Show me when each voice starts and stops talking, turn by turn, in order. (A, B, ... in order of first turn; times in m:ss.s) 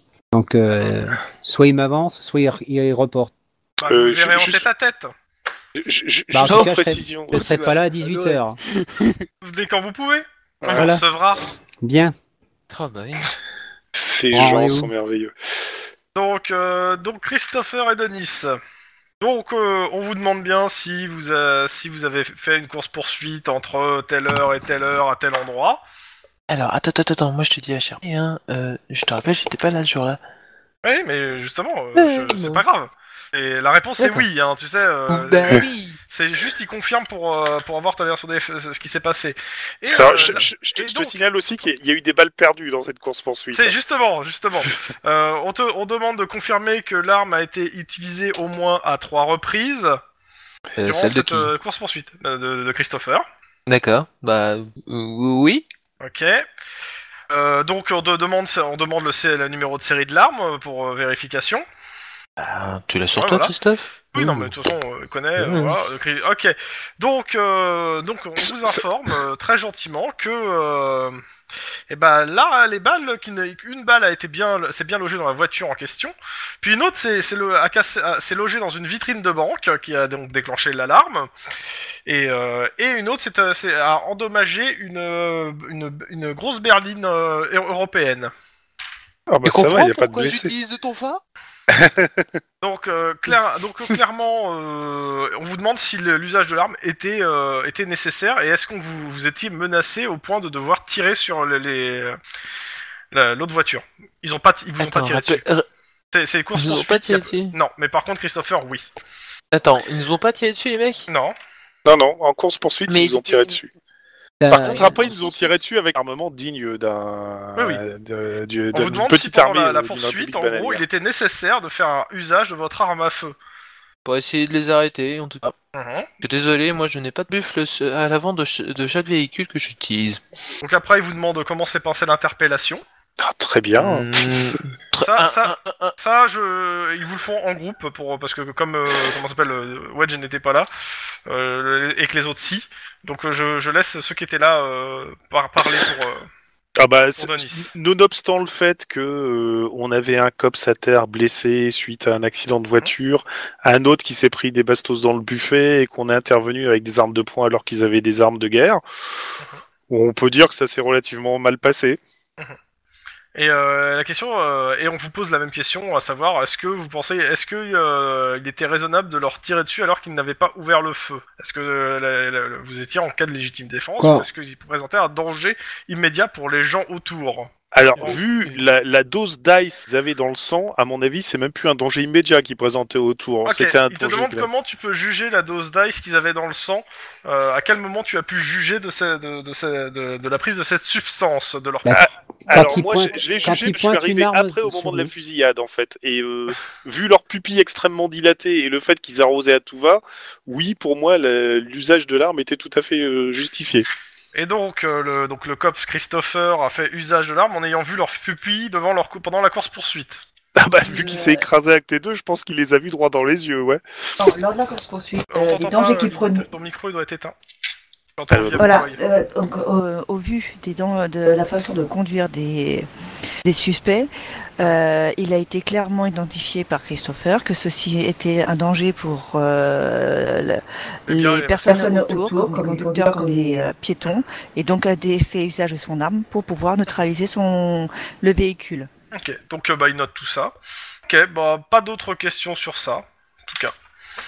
0:00.3-0:03.3 A
0:03.8-0:05.1 B
0:03.8-0:04.6 C
0:05.7-0:07.8 C
0:06.3-0:08.6 A
0:06.4-0:09.2 D
0:09.4-0:11.4 B
0:10.6-0:11.0 C
0:10.7-0:11.0 A
0:11.8-0:12.1 A
0:12.7-0:13.3 D
0:13.9-0:15.3 C
0:14.3-0:14.9 A
0:16.1-0:18.6 B
0:19.2-0:25.8 B
0:26.5-0:30.2 D
0:30.8-0:41.2 B
0:31.9-0:32.6 D
0:34.0-0:34.2 D
0:35.1-0:36.0 D
0:39.9-0:43.8 C
0:43.5-0:50.0 B
0:50.8-0:51.5 D
0:50.8-0:53.2 B
0:53.7-0:55.6 D
0:56.0-0:56.4 B
0:57.3-1:01.6 B
1:02.4-1:04.4 D
1:03.2-1:03.5 B
1:04.1-1:11.2 B
1:05.4-1:05.9 D
1:08.4-1:08.8 C
1:11.9-1:21.3 B
1:22.0-1:28.3 B
1:29.3-1:30.5 C
1:29.4-1:31.2 D
1:31.7-1:32.3 C
1:32.6-1:42.2 B
1:43.1-1:45.4 B
1:44.8-1:45.6 D
1:46.1-1:48.9 B
1:46.5-1:47.6 D
1:49.5-1:51.1 D
1:51.1-1:51.4 B
1:51.8-1:53.7 C
1:52.9-1:53.6 D
1:54.4-1:55.0 A
1:54.5-2:00.8 C
1:54.5-1:55.6 D
1:57.6-1:57.8 B
1:58.7-2:03.3 B
2:04.0-2:05.5 D
2:05.7-2:06.1 B
2:06.2-2:10.2 D
2:10.6-2:12.8 B
2:13.2-2:14.3 C
2:13.8-2:15.9 D
2:15.0-2:20.7 B
2:21.3-2:26.3 B
2:26.8-2:39.3 C
2:27.2-2:27.7 B
2:39.9-2:42.0 C
2:43.3-2:58.2 B
2:54.0-2:54.3 A
2:57.7-3:04.5 C
2:58.0-2:58.6 D
3:03.4-3:12.1 B
3:11.8-3:15.1 A
3:12.0-3:23.9 C
3:24.3-3:30.2 B
3:30.6-3:33.8 C
3:31.0-3:31.4 E
3:34.2-3:36.4 F
3:34.2-3:36.1 E
3:35.3-3:37.3 B
3:38.2-3:39.0 B
3:38.3-3:38.8 C
3:38.6-3:42.9 E
3:43.4-3:58.9 E
3:51.1-3:51.7 B
3:51.6-3:53.7 F
3:59.1-4:00.5 B
4:01.1-4:03.7 B